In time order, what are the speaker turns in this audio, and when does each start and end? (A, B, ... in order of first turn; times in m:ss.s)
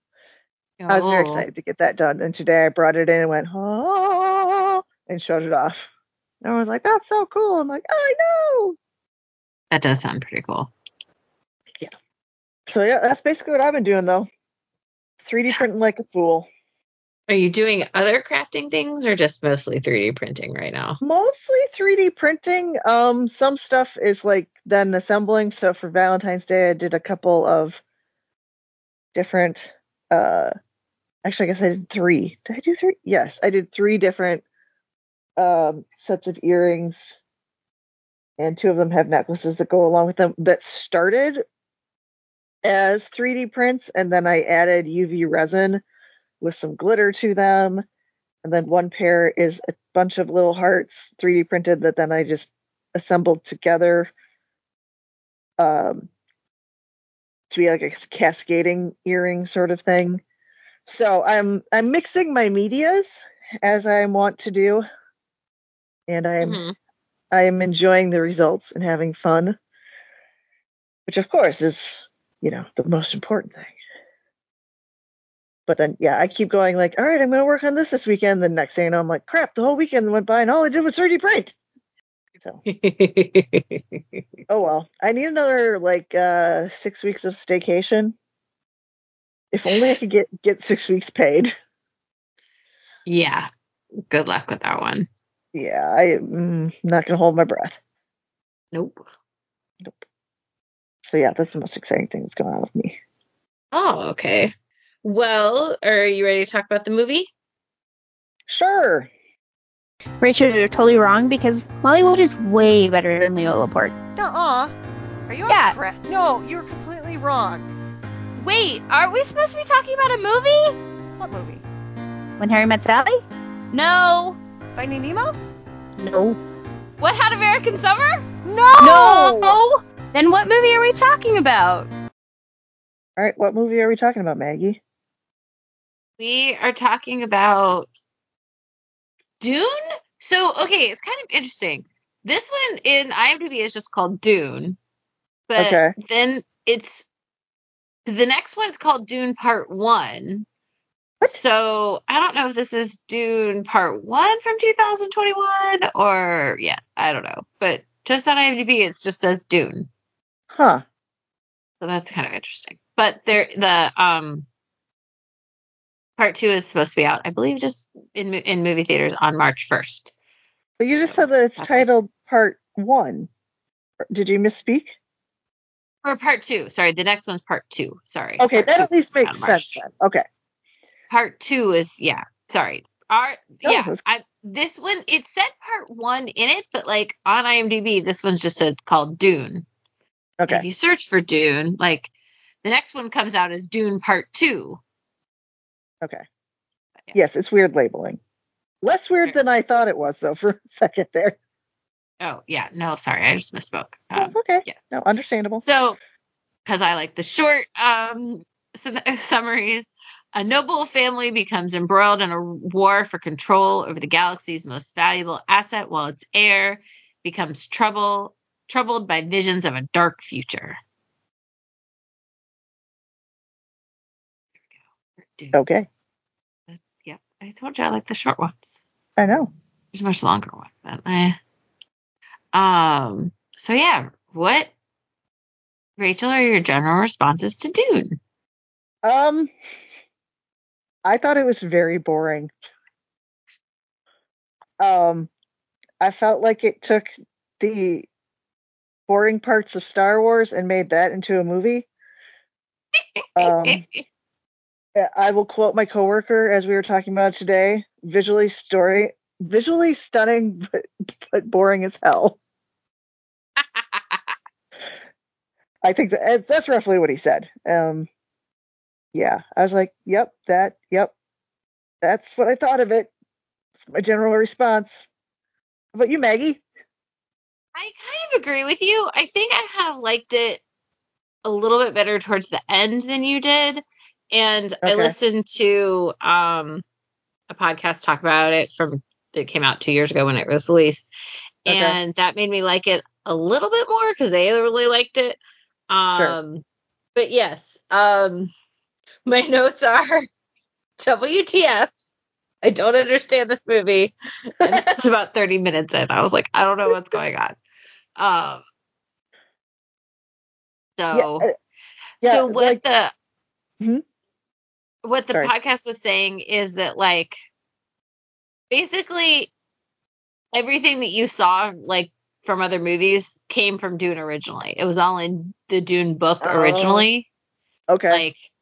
0:00.8-0:01.5 A
0:00.9-0:05.9 B
0:06.4-0:08.8 B
0:09.7-0:10.7 A
0:12.7-0:14.3 B
0:15.2-0:16.5 B
0:17.3-0:21.0 A
0:21.0-0:27.8 B
0:29.1-0:30.5 B
0:31.2-0:34.4 B
0:35.4-0:37.1 B
0:38.4-0:41.4 B
0:42.6-0:45.8 B
0:46.4-0:47.8 B
0:48.4-0:54.1 B
0:55.6-0:56.1 B
0:57.5-1:00.2 B
1:00.9-1:04.8 B
1:06.1-1:06.6 B
1:06.4-1:06.8 A
1:07.3-1:09.6 B
1:11.1-1:13.7 B
1:15.7-1:21.6 B
1:22.7-1:24.2 A
1:24.5-1:28.2 B
1:29.5-1:31.6 B
1:29.6-1:30.0 A
1:33.1-1:33.5 A
1:34.1-1:35.1 A
1:35.5-1:37.8 B
1:38.7-1:39.0 A
1:41.0-1:43.0 B
1:43.7-1:47.3 A
1:48.5-1:49.1 B
1:50.2-1:54.0 C
1:54.2-1:54.7 D
1:55.3-1:57.6 D
1:55.5-1:55.8 C
1:58.4-2:00.8 E
2:01.2-2:01.6 D
2:02.4-2:03.2 C
2:03.7-2:04.4 E
2:04.8-2:05.4 D
2:06.0-2:06.4 C
2:07.0-2:09.6 E
2:08.8-2:09.6 B
2:10.1-2:11.9 E
2:13.2-2:14.8 B
2:16.2-2:17.9 A
2:19.4-2:24.8 A
2:25.5-2:27.1 A
2:25.6-2:25.9 B
2:28.1-2:30.5 A
2:31.3-2:39.9 A
2:40.5-2:40.8 B
2:41.8-2:44.5 A
2:46.2-2:50.1 A
2:50.8-2:53.3 B
2:51.0-2:51.9 A
2:54.1-2:55.0 B
2:56.0-2:59.8 A
2:58.4-3:00.2 B
3:01.1-3:09.7 A
3:03.6-3:04.0 B
3:10.4-3:10.6 B
3:10.5-3:12.1 A
3:12.6-3:14.8 A
3:17.1-3:18.2 B
3:18.8-3:21.4 B
3:22.2-3:24.8 A
3:24.2-3:25.6 B
3:25.6-3:26.0 A
3:26.7-3:40.8 A
3:45.2-3:45.6 A
3:45.5-3:45.9 B
3:46.7-3:48.8 A
3:49.2-3:49.5 B
3:49.9-3:51.4 A
3:52.5-3:54.7 A
3:56.0-3:58.2 A
3:59.0-3:59.5 B
4:01.0-4:02.5 B
4:04.8-4:05.3 B
4:06.0-4:08.1 B
4:09.1-4:11.9 B
4:13.2-4:14.0 A
4:13.4-4:13.8 B
4:15.0-4:22.4 B
4:23.6-4:24.3 A
4:25.8-4:28.1 B
4:29.1-4:31.1 B
4:32.0-4:33.1 B
4:33.8-4:35.1 B
4:35.9-4:36.6 B
4:37.8-4:40.6 A
4:41.4-4:46.8 A
4:44.8-4:45.1 B
4:47.5-4:51.1 A
4:51.6-4:55.4 A
4:51.7-4:52.0 B
4:55.9-4:56.6 A
4:57.2-4:58.5 A
4:59.3-5:00.3 A
5:01.0-5:01.9 A
5:02.6-5:07.6 A
5:04.7-5:05.0 B
5:08.2-5:08.6 A
5:11.0-5:11.5 A
5:11.1-5:11.5 B
5:12.2-5:12.8 B
5:12.2-5:13.1 A
5:15.0-5:17.4 A
5:18.7-5:19.5 A
5:20.5-5:27.3 A
5:26.4-5:27.1 B
5:27.9-5:28.2 B
5:28.1-5:28.4 A